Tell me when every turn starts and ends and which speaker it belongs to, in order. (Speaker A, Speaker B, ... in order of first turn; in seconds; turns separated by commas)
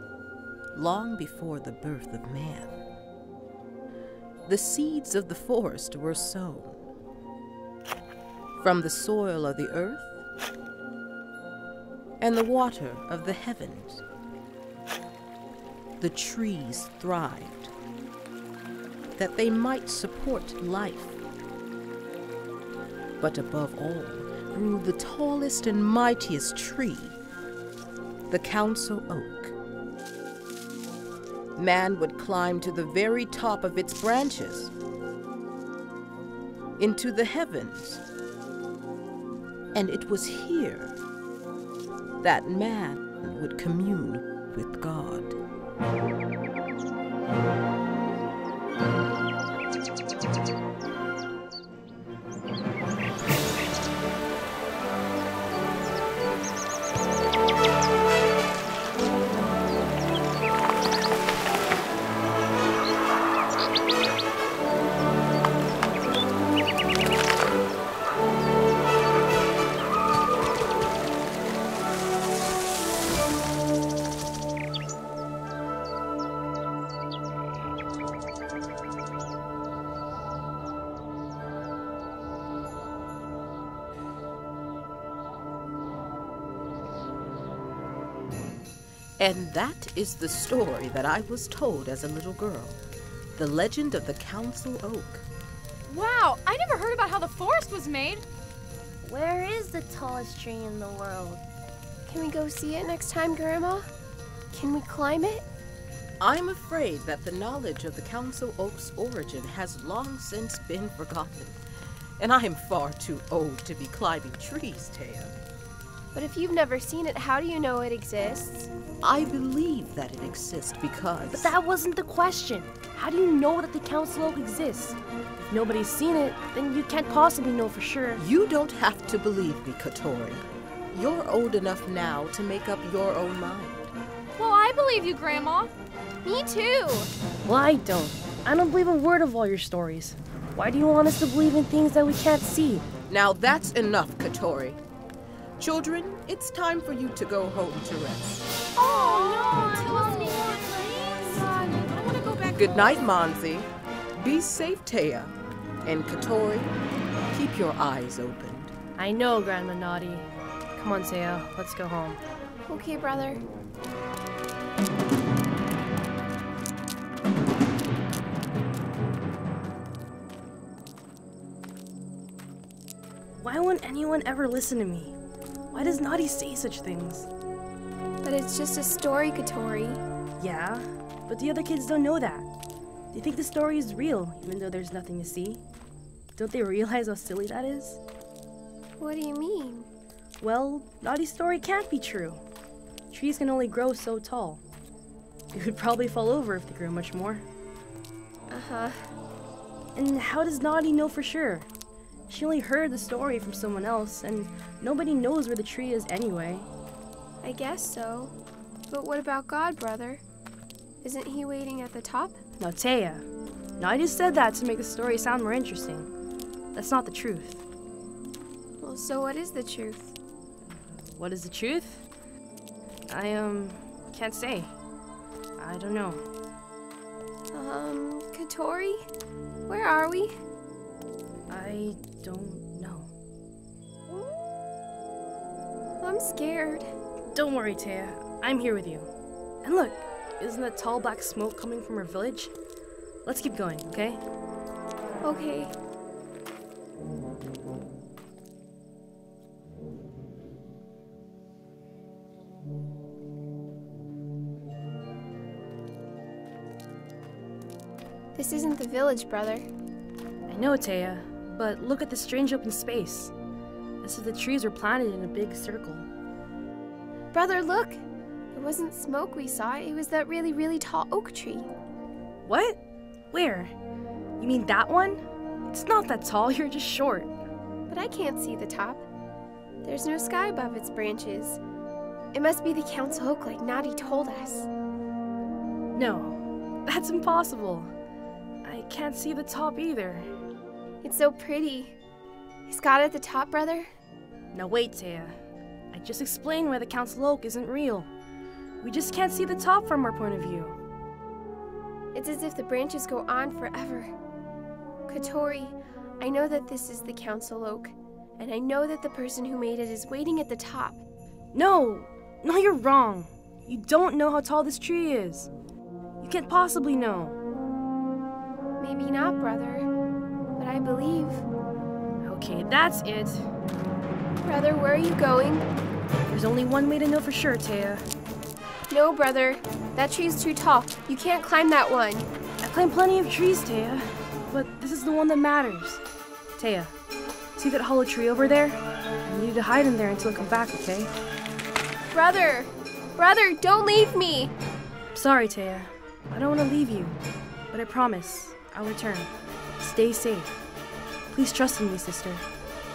Speaker A: 0.7-2.8, Speaker A: 4.5-6.8, Speaker A: 8.6-10.1, Speaker A: 12.2-14.0, Speaker A: 16.0-17.7, Speaker A: 19.2-21.2, Speaker A: 23.2-27.2, Speaker A: 28.3-29.6, Speaker A: 31.6-34.7, Speaker A: 36.8-38.0, Speaker A: 39.7-41.0, Speaker A: 42.2-45.4, Speaker A: 89.2-92.8, Speaker A: 93.4-95.3, Speaker B: 95.9-98.2, Speaker C: 99.0-101.4, Speaker D: 102.1-103.9, Speaker D: 104.5-105.5, Speaker A: 106.2-111.6, Speaker A: 112.2-115.3, Speaker D: 116.1-118.7, Speaker A: 119.0-121.6, Speaker C: 121.3-128.2, Speaker A: 128.2-133.9, Speaker B: 134.4-135.7, Speaker D: 136.2-137.1, Speaker C: 137.4-142.9, Speaker A: 143.1-144.8, Speaker A: 145.6-148.5, Speaker B: 148.8-153.0, Speaker C: 149.3-151.8, Speaker A: 152.5-156.8, Speaker A: 157.3-158.7, Speaker C: 159.0-162.2, Speaker D: 162.7-163.5, Speaker C: 173.4-175.2, Speaker C: 175.7-177.3, Speaker D: 178.2-180.0, Speaker C: 180.4-182.5, Speaker C: 183.1-185.6, Speaker C: 186.3-188.0, Speaker D: 189.0-189.9, Speaker C: 190.4-192.4, Speaker C: 193.1-194.6, Speaker C: 195.5-197.5, Speaker D: 198.5-199.1, Speaker C: 199.9-201.7, Speaker C: 202.3-206.7, Speaker D: 207.4-208.3, Speaker D: 208.9-210.2, Speaker D: 211.0-212.4, Speaker C: 212.6-213.2, Speaker C: 213.8-216.1, Speaker C: 216.7-217.6, Speaker D: 218.8-220.2, Speaker C: 221.0-222.1, Speaker C: 223.1-224.7, Speaker C: 225.6-226.2, Speaker D: 227.5-229.1, Speaker D: 229.7-230.4, Speaker C: 231.5-233.1, Speaker D: 236.0-236.9, Speaker C: 237.3-239.1, Speaker C: 239.6-242.5, Speaker C: 243.2-244.2, Speaker D: 245.2-245.7, Speaker D: 258.4-259.7, Speaker C: 260.5-263.3, Speaker C: 264.0-266.1, Speaker D: 267.3-268.0, Speaker D: 268.5-271.7, Speaker C: 272.4-272.8, Speaker C: 273.3-273.7, Speaker C: 274.4-277.3, Speaker D: 277.9-279.1, Speaker D: 279.8-281.6, Speaker D: 282.3-284.7, Speaker C: 285.9-287.9, Speaker C: 288.6-290.3, Speaker D: 291.0-292.0, Speaker D: 292.7-293.9, Speaker C: 294.5-295.4, Speaker C: 295.9-298.1, Speaker C: 298.8-300.8, Speaker D: 302.1-304.1, Speaker D: 305.1-311.0, Speaker C: 311.5-315.5, Speaker C: 316.2-317.4, Speaker D: 318.8-319.9, Speaker D: 320.6-321.4, Speaker C: 322.2-323.5, Speaker D: 324.4-325.7, Speaker C: 326.3-328.1, Speaker D: 328.9-332.3, Speaker C: 332.6-336.0, Speaker C: 336.6-336.9, Speaker C: 337.6-341.1, Speaker D: 342.1-344.5, Speaker C: 345.1-347.2, Speaker C: 347.7-350.5, Speaker C: 351.3-352.4